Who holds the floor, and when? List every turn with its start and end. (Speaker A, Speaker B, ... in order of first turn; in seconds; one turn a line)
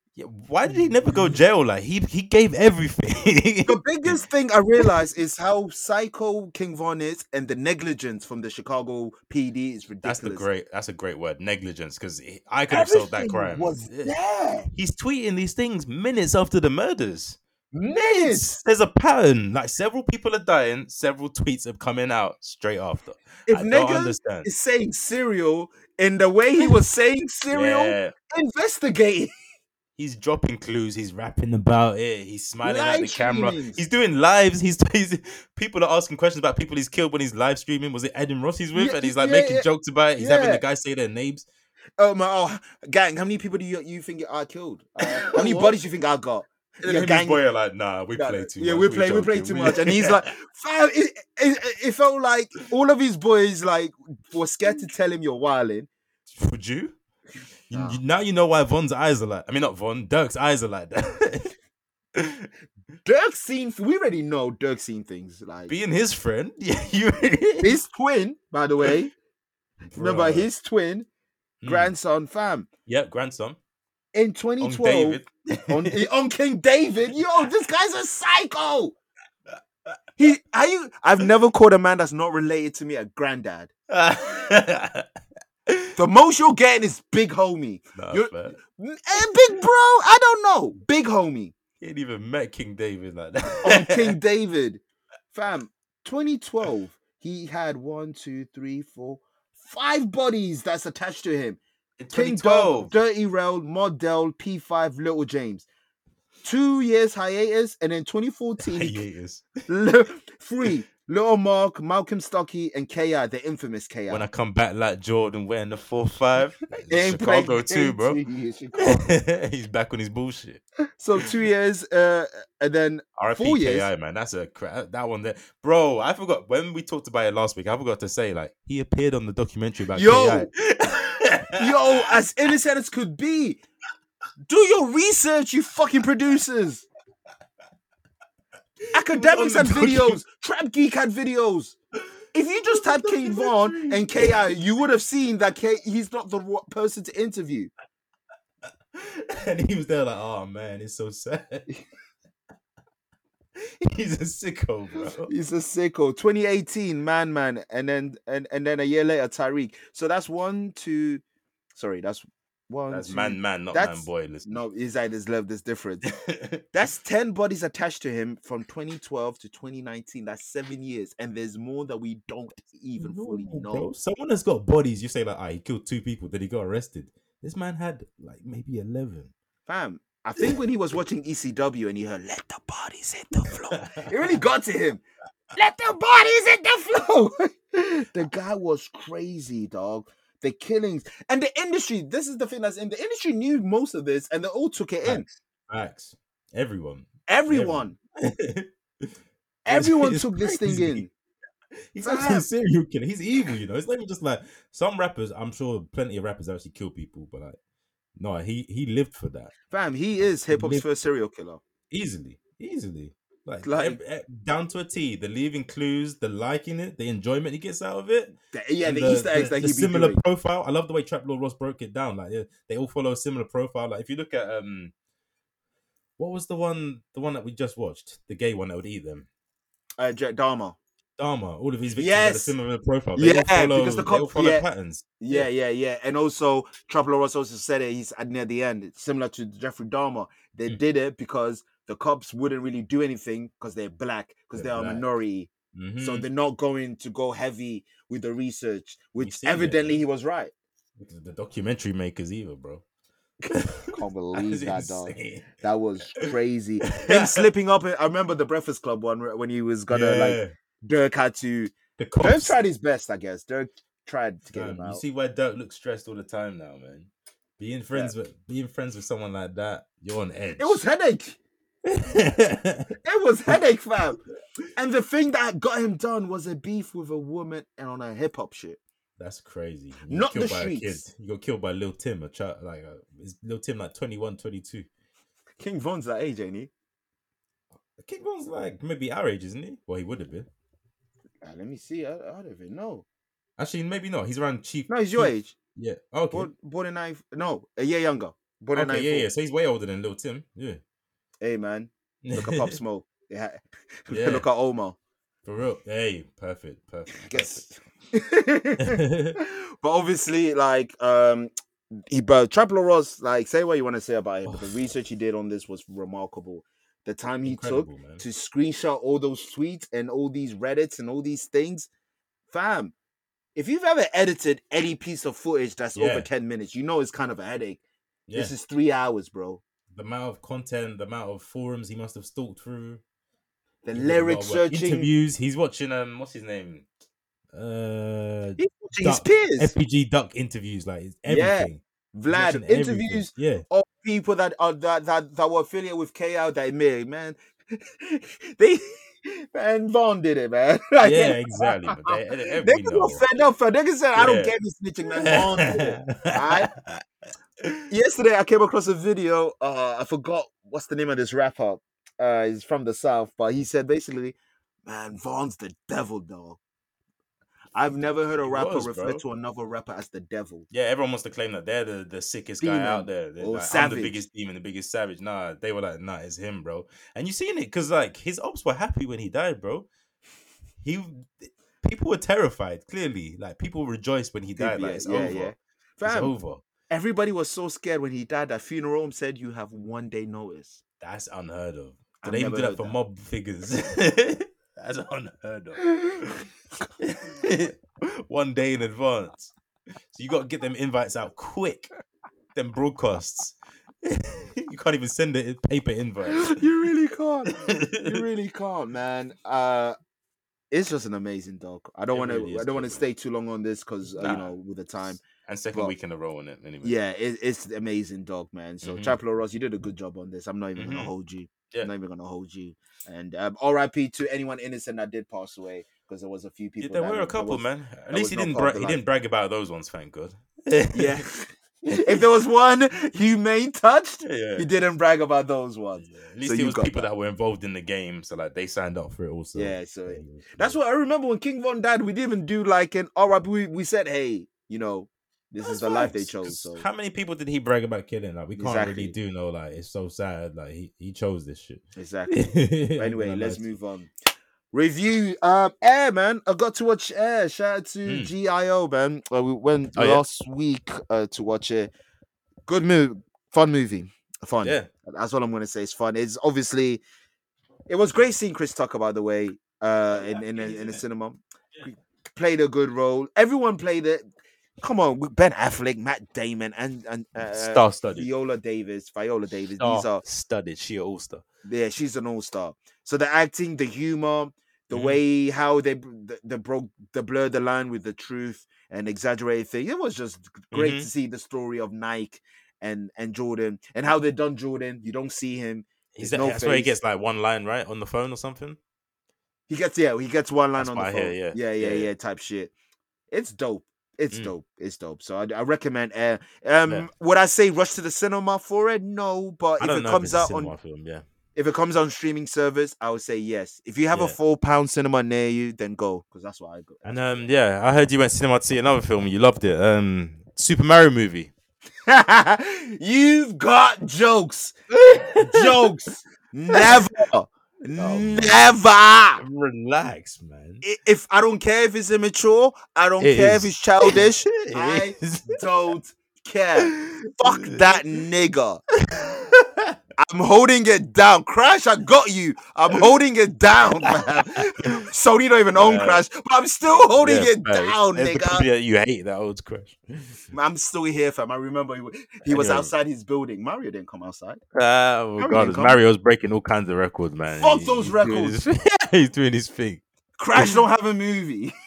Speaker A: 0.2-4.2
Speaker B: 3.7-10.5
Speaker A: 10.0-14.1
Speaker B: 12.7-14.7
Speaker A: 14.7-17.4
Speaker B: 17.7-18.5
Speaker A: 18.1-24.5
Speaker B: 23.5-29.3
Speaker A: 27.5-28.1
Speaker A: 30.0-41.5
Speaker B: 32.6-33.8
Speaker B: 38.7-39.7
Speaker B: 40.2-40.6
Speaker B: 42.0-47.4
Speaker A: 45.0-45.8
Speaker A: 46.8-50.2
Speaker B: 48.1-55.9
Speaker A: 56.3-57.0
Speaker A: 57.7-61.5
Speaker B: 57.7-58.0
Speaker A: 62.2-62.5
Speaker B: 63.0-65.7
Speaker A: 65.7-67.8
Speaker B: 67.6-69.1
Speaker A: 69.9-70.5
Speaker B: 70.0-71.1
Speaker A: 71.6-71.9
Speaker B: 71.7-72.7
Speaker A: 72.9-73.6
Speaker B: 74.1-79.0
Speaker A: 74.6-76.0
Speaker B: 80.2-83.7
Speaker A: 83.9-85.1
Speaker B: 86.0-91.5
Speaker A: 88.0-88.6
Speaker A: 91.8-94.2
Speaker B: 93.6-94.8
Speaker B: 95.3-101.6
Speaker A: 102.0-102.9
Speaker B: 102.1-105.7
Speaker B: 106.4-109.0
Speaker A: 108.6-109.6
Speaker B: 109.7-114.3
Speaker A: 114.1-118.2
Speaker B: 116.9-119.1
Speaker A: 118.8-120.6
Speaker B: 121.0-123.9
Speaker A: 123.2-132.1
Speaker B: 129.9-130.5
Speaker B: 131.6-133.6
Speaker B: 134.5-136.9
Speaker A: 138.9-140.2
Speaker B: 138.9-141.8
Speaker B: 142.3-147.7
Speaker A: 142.7-144.5
Speaker A: 148.9-151.7
Speaker A: 153.6-155.3
Speaker B: 155.2-161.2
Speaker B: 161.8-166.1
Speaker A: 162.9-164.6
Speaker A: 166.0-166.6
Speaker B: 166.7-173.9
Speaker A: 173.0-179.3
Speaker B: 179.7-185.0
Speaker A: 183.7-184.1
Speaker B: 185.6-195.2
Speaker A: 195.0-199.1
Speaker B: 197.3-198.0
Speaker B: 199.7-201.1
Speaker A: 199.7-201.1
Speaker A: 201.9-207.6
Speaker B: 202.0-202.5
Speaker A: 208.2-209.5
Speaker B: 209.7-211.6
Speaker A: 210.5-210.9
Speaker A: 211.9-224.9
Speaker B: 213.6-214.0
Speaker B: 218.5-220.2
Speaker A: 226.2-229.3
Speaker B: 230.0-230.8
Speaker A: 231.2-235.5
Speaker B: 232.0-232.6
Speaker B: 233.2-234.7
Speaker B: 235.2-250.5
Speaker A: 244.6-245.1
Speaker A: 245.7-246.3
Speaker A: 249.2-250.0
Speaker A: 251.0-252.8
Speaker A: 253.5-255.6
Speaker B: 253.9-265.0
Speaker A: 256.9-257.5
Speaker A: 259.9-260.5
Speaker A: 262.0-262.6
Speaker A: 264.5-270.8
Speaker B: 270.6-271.4
Speaker A: 271.9-272.9
Speaker B: 273.0-274.2
Speaker B: 274.8-278.8
Speaker A: 279.2-284.9
Speaker B: 280.1-281.0
Speaker B: 285.6-286.7
Speaker A: 288.0-290.5
Speaker B: 291.4-293.1
Speaker A: 293.6-296.5
Speaker B: 294.9-295.6
Speaker B: 296.3-299.3
Speaker A: 298.7-300.8
Speaker B: 301.4-305.0
Speaker A: 302.2-302.8
Speaker A: 304.1-304.5
Speaker A: 305.4-307.6
Speaker B: 307.1-311.5
Speaker A: 308.8-309.4
Speaker B: 312.1-321.9
Speaker A: 314.4-314.9
Speaker A: 317.4-318.2
Speaker B: 322.5-322.9
Speaker B: 323.6-327.8
Speaker A: 325.9-326.3
Speaker A: 328.3-328.5
Speaker B: 328.3-329.6
Speaker A: 329.9-333.0
Speaker B: 333.8-335.1
Speaker A: 333.9-336.9
Speaker A: 337.5-343.6
Speaker B: 338.6-339.7
Speaker B: 341.3-356.7
Speaker A: 351.0-353.2
Speaker A: 354.2-354.6
Speaker A: 355.2-357.0
Speaker B: 357.9-366.6
Speaker B: 367.7-370.7
Speaker A: 368.4-369.2
Speaker A: 370.7-379.9
Speaker B: 372.6-374.2
Speaker A: 380.8-385.5
Speaker B: 384.6-386.3
Speaker A: 386.0-386.6
Speaker B: 386.9-390.8
Speaker A: 391.0-396.4
Speaker B: 392.2-393.0
Speaker A: 397.0-399.5
Speaker A: 400.1-401.9
Speaker A: 402.6-406.6
Speaker B: 406.3-410.0
Speaker A: 407.5-408.2
Speaker B: 410.7-415.2
Speaker A: 412.1-413.0
Speaker A: 414.2-414.5
Speaker A: 415.2-416.9
Speaker B: 416.8-429.0
Speaker A: 418.8-419.2
Speaker A: 420.8-421.1
Speaker A: 426.8-431.2
Speaker B: 430.9-437.1
Speaker A: 434.2-434.7
Speaker A: 436.0-440.8
Speaker B: 439.6-446.9
Speaker A: 445.6-453.7
Speaker B: 448.6-449.1
Speaker B: 452.0-452.4
Speaker B: 453.0-454.1
Speaker B: 454.7-461.9
Speaker A: 458.1-458.3
Speaker A: 460.0-460.2
Speaker B: 462.7-467.0
Speaker A: 464.6-464.9
Speaker B: 467.9-474.2
Speaker A: 470.3-471.0
Speaker B: 474.8-480.2
Speaker A: 477.5-478.3
Speaker A: 479.8-481.4
Speaker B: 481.6-496.9
Speaker A: 484.9-485.2
Speaker A: 490.7-491.1
Speaker A: 496.2-498.8
Speaker B: 499.7-502.7
Speaker A: 500.8-502.1
Speaker B: 503.3-510.7
Speaker A: 509.8-511.2
Speaker B: 511.6-517.4
Speaker A: 517.0-521.5
Speaker B: 522.1-524.8
Speaker A: 524.9-525.8
Speaker B: 525.4-529.4
Speaker A: 526.7-527.0
Speaker A: 528.0-528.7
Speaker A: 529.4-530.8
Speaker B: 530.8-538.8
Speaker A: 533.2-535.6
Speaker A: 536.8-538.0
Speaker A: 539.0-540.0
Speaker B: 540.2-548.7
Speaker A: 544.0-545.0
Speaker A: 545.7-546.2
Speaker A: 547.2-550.4
Speaker B: 550.5-554.6
Speaker A: 552.5-552.9
Speaker A: 554.8-560.0
Speaker B: 555.4-556.0
Speaker B: 557.5-558.6
Speaker B: 560.4-561.7
Speaker A: 560.5-560.8